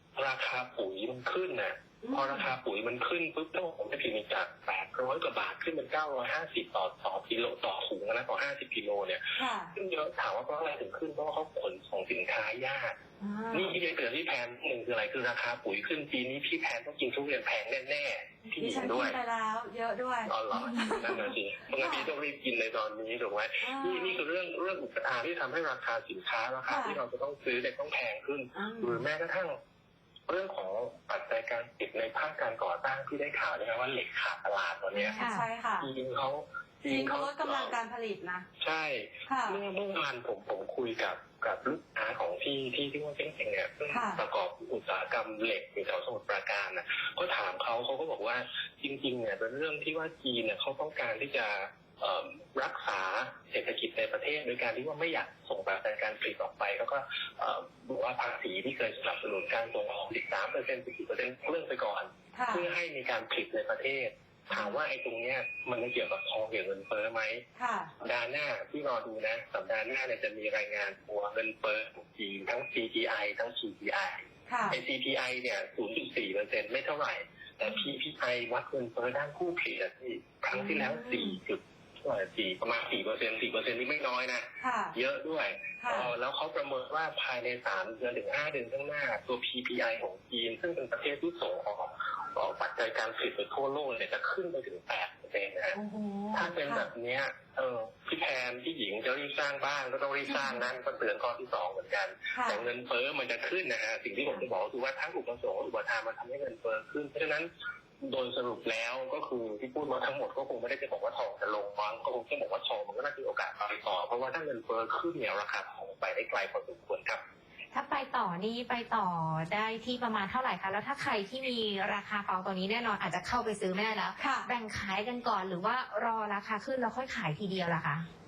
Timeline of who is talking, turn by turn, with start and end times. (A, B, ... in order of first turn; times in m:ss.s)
0:00.2-0:09.2 A
0:02.0-0:02.5 B
0:09.4-0:09.7 B
0:09.8-0:13.0 A
0:13.2-0:13.8 B
0:13.5-0:19.2 A
0:18.6-0:21.2 B
0:20.3-0:29.6 A
0:21.8-0:22.1 B
0:23.6-0:24.2 B
0:26.7-0:27.0 B
0:28.6-0:29.0 B
0:30.3-0:35.2 A
0:34.9-0:35.9 B
0:35.2-0:35.4 C
0:35.8-0:37.8 A
0:36.8-0:38.4 B
0:38.6-1:07.4 A
0:39.3-0:39.6 B
0:43.9-0:44.2 B
1:02.3-1:02.7 B
1:07.6-1:07.9 B
1:08.0-1:35.8 A
1:14.5-1:14.8 B
1:20.5-1:21.4 B
1:24.6-1:25.0 B
1:25.8-1:26.1 B
1:35.7-1:36.9 B
1:36.3-1:47.5 A
1:40.3-1:40.6 B
1:42.3-1:42.6 B
1:48.0-1:57.2 A
1:57.7-2:08.1 C
2:04.2-2:04.5 B